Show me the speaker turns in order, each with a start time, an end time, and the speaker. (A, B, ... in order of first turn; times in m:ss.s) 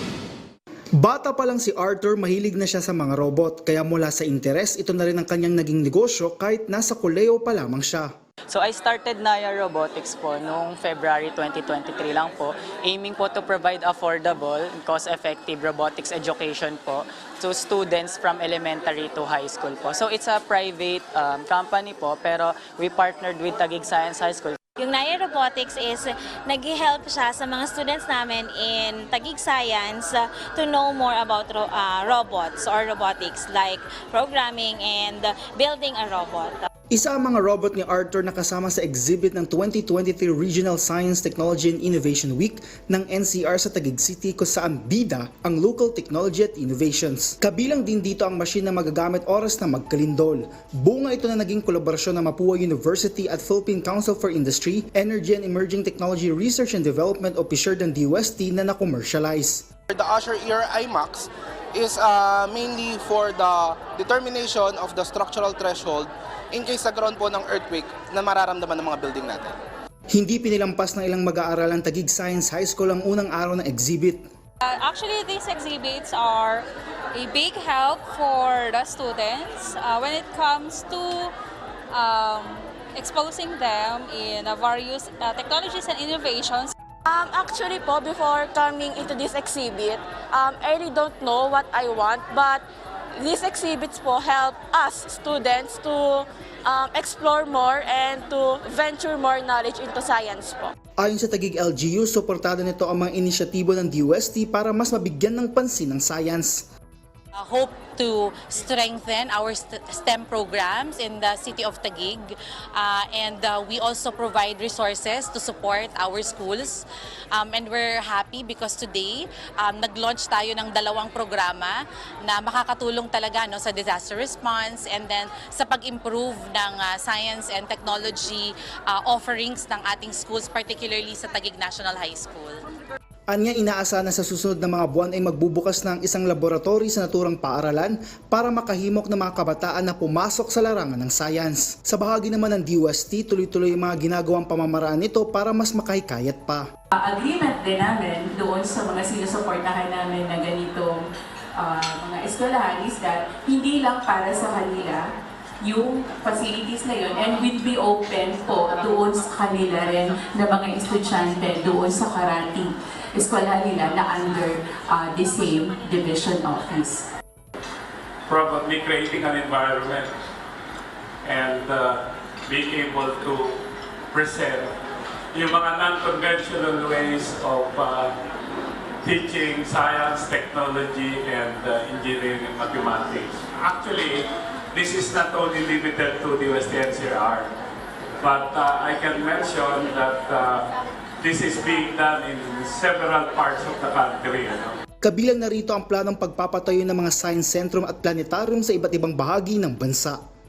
0:01.0-0:08.1 A
0:08.5-0:24.6 B
0:24.8-0:36.7 C
0:36.9-0:59.6 A
0:59.9-1:09.6 D
1:10.1-1:14.2 A
1:14.6-1:16.6 E
1:17.2-1:21.1 E
1:21.9-1:26.7 E
1:27.0-1:32.6 F
1:33.2-1:40.7 F
1:41.0-1:46.6 A
1:47.4-2:12.6 G
2:13.3-2:26.7 A
2:26.9-2:35.0 H
2:35.6-2:47.0 H
2:48.3-2:50.1 I
2:51.2-2:53.6 I
2:54.1-2:54.7 I
2:55.3-2:58.1 I
2:59.0-3:07.5 I
3:08.2-3:10.6 I
3:11.2-3:14.8 I
3:15.0-3:20.2 A